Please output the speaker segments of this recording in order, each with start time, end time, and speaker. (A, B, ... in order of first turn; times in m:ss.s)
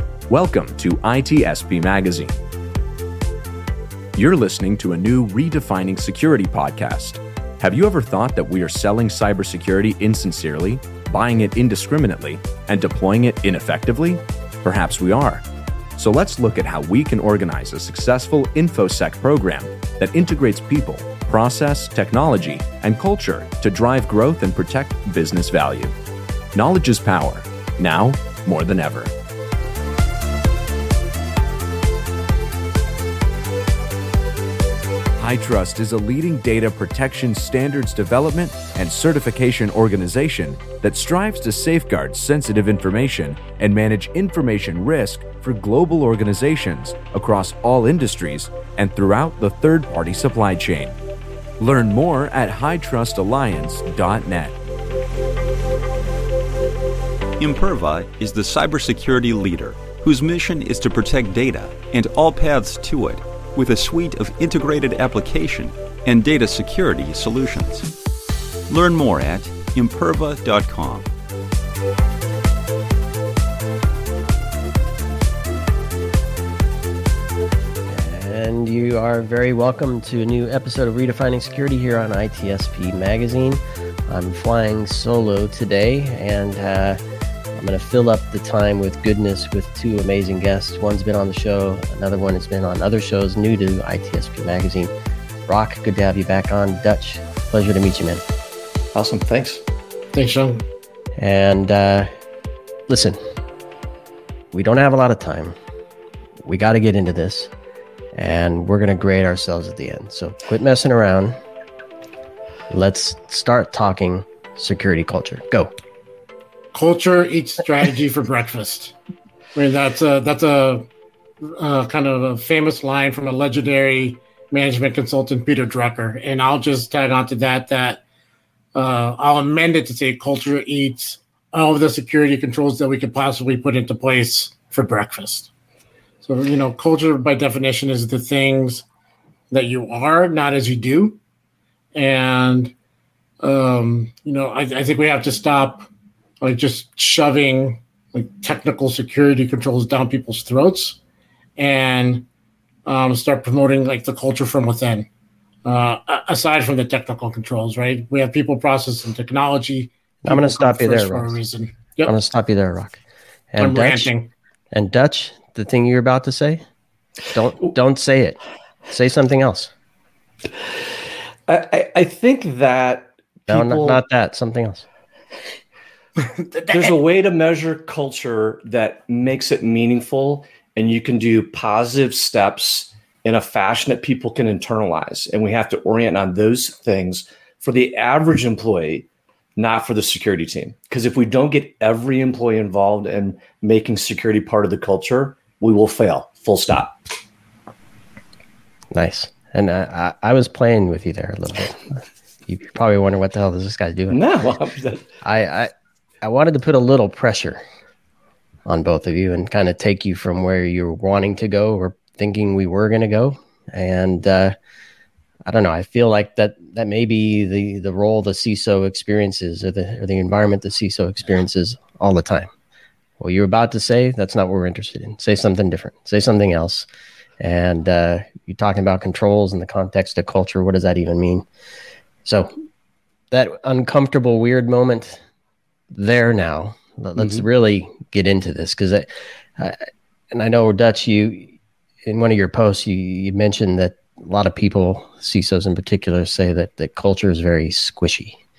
0:00.3-0:02.4 A
0:04.1-0:15.4 A
0:16.0-0:25.9 A
0:26.5-0:29.1 A
0:35.2-0:51.0 A
0:51.6-0:54.6 A
0:57.4-1:07.9 B
1:08.7-1:11.1 B
1:17.9-1:27.0 C
1:27.6-1:34.9 C
1:35.5-1:38.2 C
1:38.9-1:39.6 D
1:40.1-1:40.6 E
1:41.2-1:42.1 C
1:42.9-1:43.2 C
1:44.5-1:45.6 C
1:46.4-1:47.5 C
1:48.1-1:51.4 C
1:52.7-1:55.7 C
1:56.7-1:59.0 E
1:59.6-2:00.9 E
2:01.4-2:08.0 E
2:08.7-2:15.5 E
2:16.2-2:18.8 E
2:19.5-2:21.2 E
2:21.9-2:22.7 E
2:23.4-2:25.9 E
2:26.4-2:31.0 E
2:31.6-2:32.3 E
2:32.8-2:35.1 E
2:35.6-2:42.1 E
2:40.2-2:41.4 C
2:42.0-2:43.0 C
2:43.5-2:44.1 C
2:43.6-2:44.3 E
2:44.7-2:46.6 C
2:47.3-2:49.7 C
2:51.5-2:54.0 D
2:53.5-2:54.8 C
2:56.7-3:09.0 D
3:09.6-3:16.9 D
3:18.9-3:24.2 C
3:24.1-3:25.0 D
3:25.2-3:25.7 C
3:26.2-3:27.6 C
3:28.7-3:34.5 C
3:35.4-3:42.5 C
3:43.2-3:46.9 C
3:47.4-3:51.4 C
3:52.2-3:52.5 C
3:53.3-3:55.2 C
3:55.9-4:01.5 C
3:57.2-3:57.4 D
4:02.0-4:08.4 C